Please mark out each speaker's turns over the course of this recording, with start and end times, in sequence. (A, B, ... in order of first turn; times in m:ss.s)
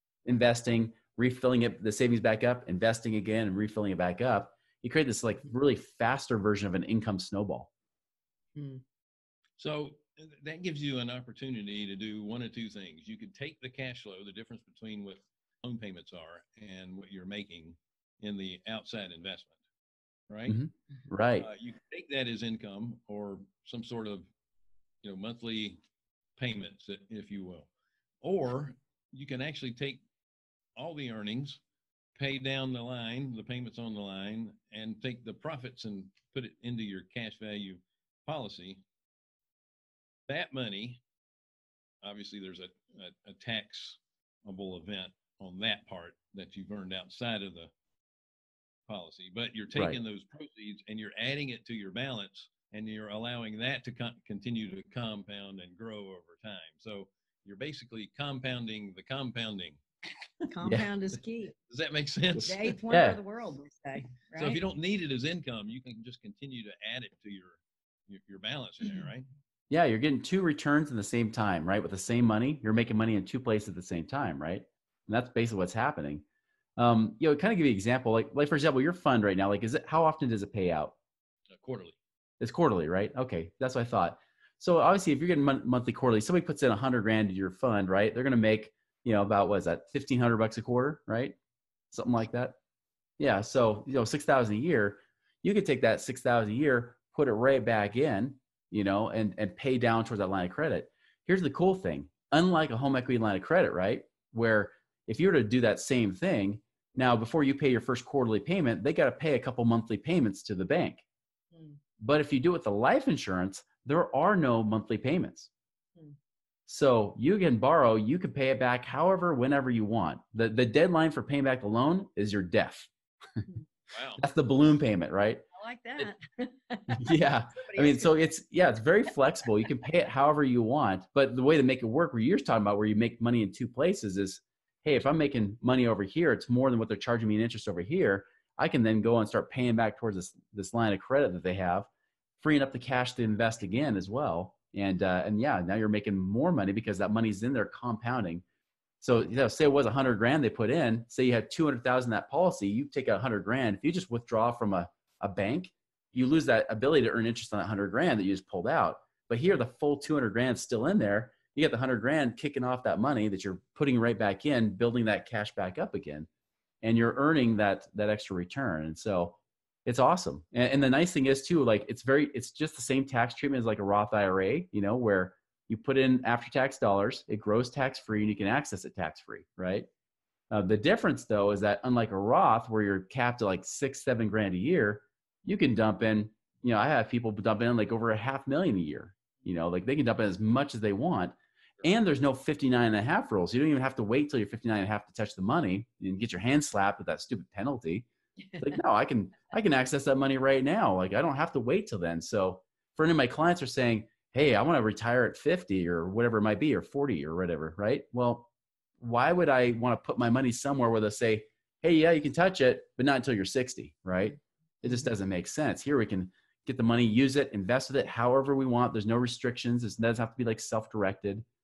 0:00.2-0:07.7 A
0:08.5-0:08.8 B
0:09.6-0:19.6 C
0:20.3-0:20.6 C
0:20.5-0:21.5 A
0:21.4-0:24.3 C
0:25.0-0:25.8 C
0:26.4-0:27.7 C
0:28.2-0:30.0 C
0:30.8-0:31.6 C
0:32.2-0:38.8 C
0:40.3-0:41.0 C
0:42.0-0:47.7 C
0:48.9-0:59.8 C
1:00.5-1:01.5 B
1:01.6-1:02.8 C
1:02.4-1:04.6 B
1:02.9-1:03.2 A
1:04.4-1:09.3 C
1:09.7-1:16.2 A
1:16.8-1:21.0 A
1:21.5-1:22.0 C
1:22.4-1:31.4 A
1:31.9-1:32.6 A
1:33.2-1:51.0 A
1:51.5-1:51.8 B
1:52.0-1:55.5 A
1:56.7-2:03.4 A
2:03.9-2:04.2 C
2:04.2-2:05.4 A
2:05.5-2:08.1 B
2:06.9-2:21.9 A
2:22.4-2:28.4 A
2:29.0-2:46.3 A
2:46.8-2:59.9 A
3:00.5-3:18.0 A
3:18.6-3:41.4 A